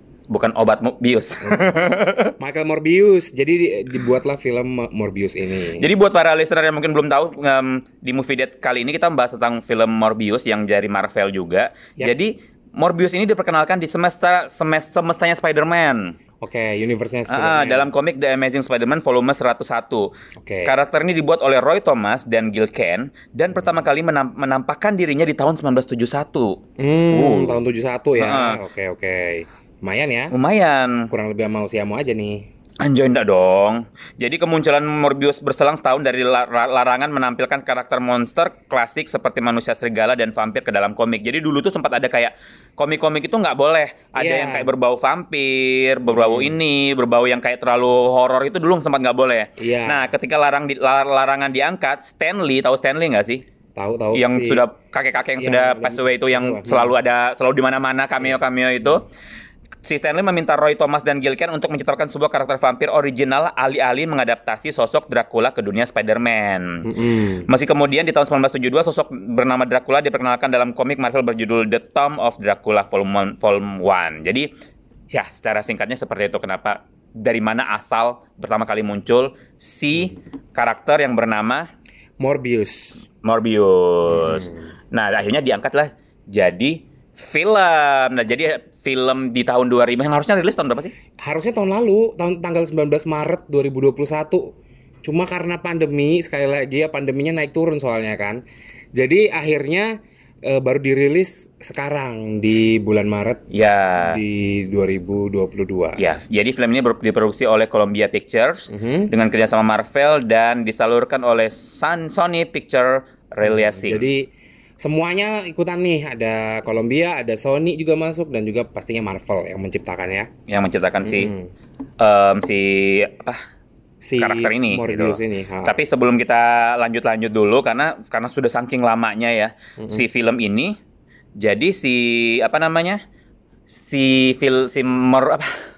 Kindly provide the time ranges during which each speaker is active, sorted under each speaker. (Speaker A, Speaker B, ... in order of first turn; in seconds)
Speaker A: 0.3-2.3, 5.8-16.1, 17.3-20.1, 20.6-27.6, 28.2-28.6, 30.3-31.1, 32.8-53.4, 54.1-59.0, 59.8-66.9, 67.5-74.5, 75.1-81.7, 83.2-90.9, 103.5-104.2, 106.0-114.0, 120.5-121.3, 122.0-123.4, 124.2-130.8, 131.4-133.0, 133.7-135.5
Speaker B: 1.4-1.8, 2.4-5.9, 16.4-17.9, 20.4-20.7, 26.8-30.3, 31.1-32.4, 44.1-44.7, 46.1-46.5, 49.6-50.1, 53.7-54.6, 55.4-56.9, 66.8-67.5, 82.2-83.0, 84.1-84.7, 91.2-94.5, 95.0-98.4, 99.0-103.4, 104.0-106.0, 108.7-109.1, 113.4-114.3, 114.8-120.3, 121.0-121.5, 124.0-125.8, 129.8-130.0